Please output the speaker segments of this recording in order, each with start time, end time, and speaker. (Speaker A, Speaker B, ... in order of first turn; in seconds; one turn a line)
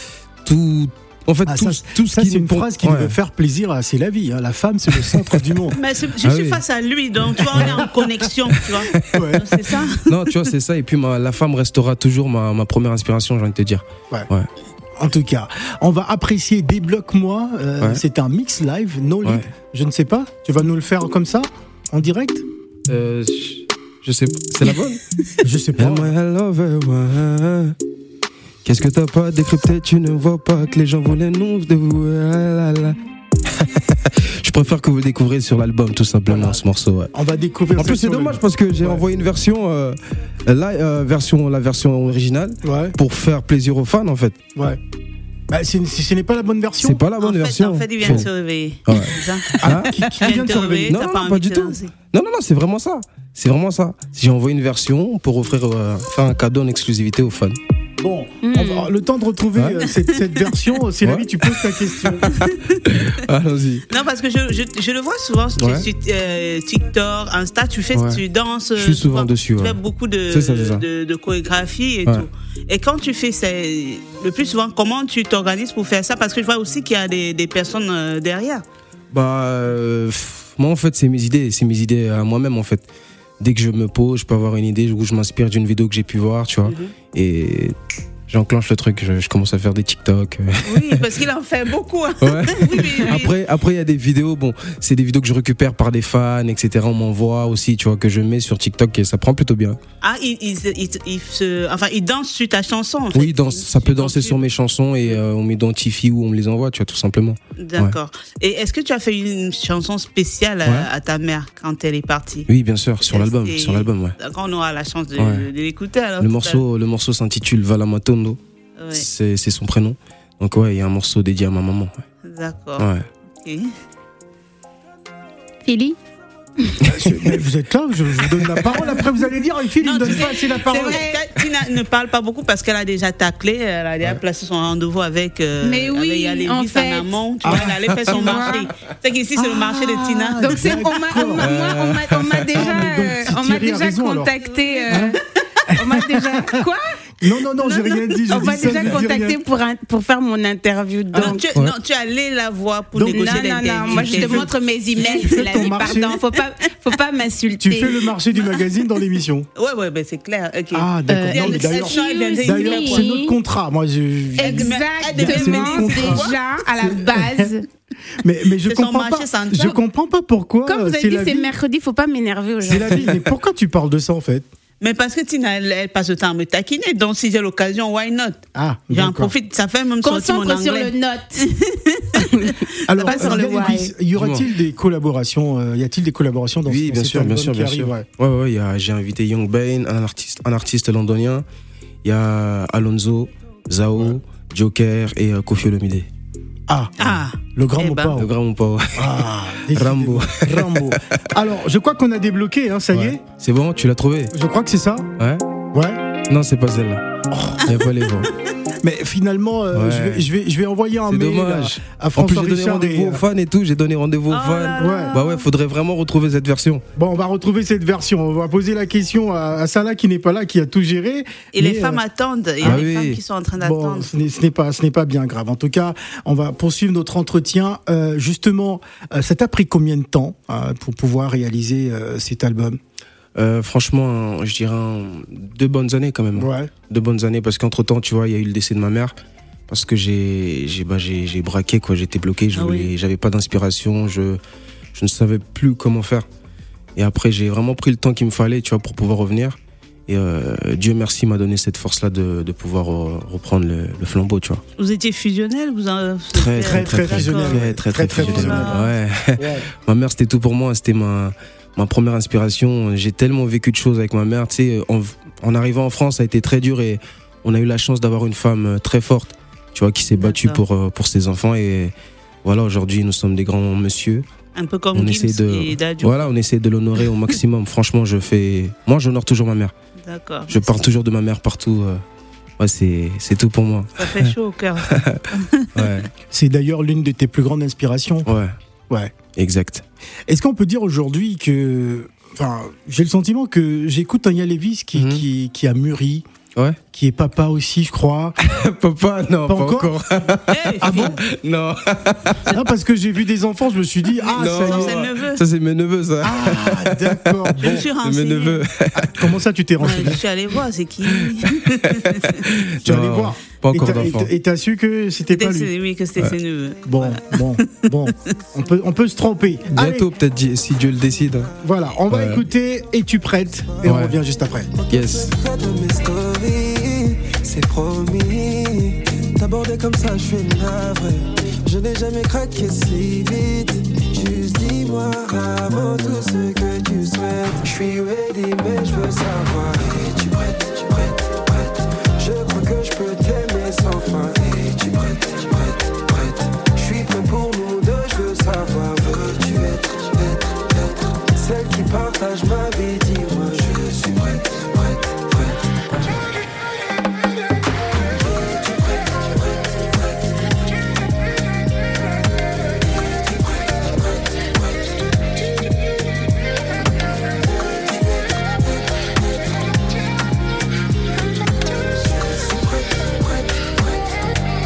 Speaker A: 0.4-3.1
Speaker B: 1.4-5.8
Speaker C: 5.7-10.3
Speaker A: 6.2-6.6
Speaker B: 7.5-7.9
Speaker B: 9.0-9.7
Speaker A: 10.1-14.5
Speaker B: 15.0-22.4
Speaker A: 22.9-25.0
Speaker B: 25.4-26.1
Speaker A: 25.8-27.8
Speaker A: 28.6-33.0
Speaker A: 33.5-37.1
Speaker B: 36.3-36.6
Speaker B: 37.1-39.1
Speaker A: 37.8-44.4
Speaker B: 42.6-43.0
Speaker B: 45.5-47.0
Speaker A: 46.8-48.3
Speaker C: 47.2-51.9
Speaker A: 48.9-50.1
Speaker B: 49.6-51.0
Speaker A: 50.7-57.6
Speaker B: 58.0-62.3
Speaker D: 58.4-58.9
Speaker A: 59.5-59.9
Speaker A: 61.0-62.2
Speaker C: 62.3-62.9
Speaker A: 62.8-63.9
Speaker C: 63.9-78.6
Speaker A: 65.6-65.8
Speaker A: 67.9-68.2
Speaker A: 68.8-69.8
Speaker A: 70.3-70.8
Speaker A: 79.1-82.8
Speaker A: 83.4-87.7
Speaker C: 86.6-86.9
Speaker A: 88.3-91.0
Speaker C: 90.6-93.3
Speaker A: 92.2-99.8
Speaker C: 100.0-104.4
Speaker A: 103.1-108.0
Speaker C: 107.6-112.5
Speaker A: 112.5-114.2
Speaker C: 113.0-116.6
Speaker A: 115.2-115.5
Speaker A: 116.2-118.4
Speaker C: 118.8-119.0
Speaker A: 118.9-122.0
Speaker C: 122.2-123.7
Speaker A: 122.8-123.0
Speaker D: 125.6-126.0
Speaker B: 126.8-131.0
Speaker C: 129.8-140.5
Speaker D: 130.6-131.2
Speaker D: 135.6-137.1
Speaker A: 137.5-138.2
Speaker D: 138.0-138.7
Speaker B: 139.3-141.5
Speaker D: 140.3-146.8
Speaker A: 141.4-142.8
Speaker B: 142.5-144.3
Speaker C: 144.5-145.1
Speaker B: 144.9-145.2
Speaker B: 145.7-146.6
Speaker B: 147.2-149.4
Speaker D: 148.3-151.4
Speaker C: 151.1-156.1
Speaker B: 152.9-153.4
Speaker D: 153.1-158.0
Speaker B: 153.9-156.2
Speaker B: 157.6-159.5
Speaker C: 159.6-163.1
Speaker B: 160.7-167.5
Speaker D: 161.1-163.4
Speaker C: 164.4-166.4
Speaker D: 164.4-167.6
Speaker B: 168.2-171.5
Speaker C: 168.6-169.8
Speaker D: 170.6-173.1
Speaker B: 172.6-174.5
Speaker C: 174.8-180.9
Speaker B: 178.5-179.3
Speaker D: 180.0-181.5
Speaker C: 181.4-183.3
Speaker D: 182.2-183.9
Speaker B: 182.9-188.1
Speaker A: 184.2-184.5
Speaker A: 186.7-191.4
Speaker A: 192.0-196.1
Speaker B: 196.7-196.9
Speaker C: 197.0-198.1
Speaker B: 197.5-198.3
Speaker A: 198.2-200.9
Speaker B: 198.9-203.2
Speaker A: 202.9-204.3
Speaker B: 204.3-205.1
Speaker B: 205.7-206.0
Speaker A: 206.3-207.0
Speaker B: 207.3-207.6
Speaker A: 207.6-208.3
Speaker B: 208.8-213.2
Speaker A: 209.7-210.2
Speaker A: 211.1-216.8
Speaker C: 214.3-215.4
Speaker B: 214.8-215.2
Speaker B: 217.0-222.0
Speaker C: 221.5-224.1
Speaker A: 222.6-223.2
Speaker B: 223.6-232.8
Speaker A: 233.3-239.1
Speaker B: 236.3-236.7
Speaker A: 239.7-244.4
Speaker C: 242.5-242.9
Speaker A: 244.9-246.2
Speaker A: 246.9-254.6
Speaker C: 254.8-258.9
Speaker A: 256.3-274.2
Speaker B: 256.6-258.8
Speaker B: 259.4-259.6
Speaker C: 270.1-270.6
Speaker C: 274.5-276.3
Speaker A: 274.9-279.7
Speaker C: 280.0-280.8
Speaker A: 280.5-282.0
Speaker A: 282.6-284.3
Speaker C: 284.0-285.9
Speaker A: 284.9-285.2
Speaker A: 285.7-286.1
Speaker B: 286.3-288.3
Speaker A: 288.2-288.5
Speaker B: 288.9-289.1
Speaker A: 289.4-289.8
Speaker B: 290.3-296.2
Speaker A: 294.9-295.2
Speaker B: 296.9-298.4
Speaker A: 298.4-302.4
Speaker B: 299.5-299.9
Speaker C: 300.5-301.2
Speaker B: 300.8-301.2
Speaker B: 302.5-305.0
Speaker C: 304.3-305.4
Speaker A: 304.3-309.3
Speaker B: 306.2-307.9
Speaker C: 307.6-308.6
Speaker B: 308.9-310.2
Speaker C: 309.8-312.5
Speaker A: 311.2-314.3
Speaker B: 312.8-315.7
Speaker C: 315.3-317.9
Speaker B: 316.9-320.1
Speaker A: 319.7-321.5
Speaker B: 321.6-324.7
Speaker A: 322.1-322.4
Speaker A: 323.8-324.2
Speaker E: 324.8-356.2
Speaker A: 324.9-325.3
Speaker E: 358.2-359.7
Speaker E: 371.9-373.7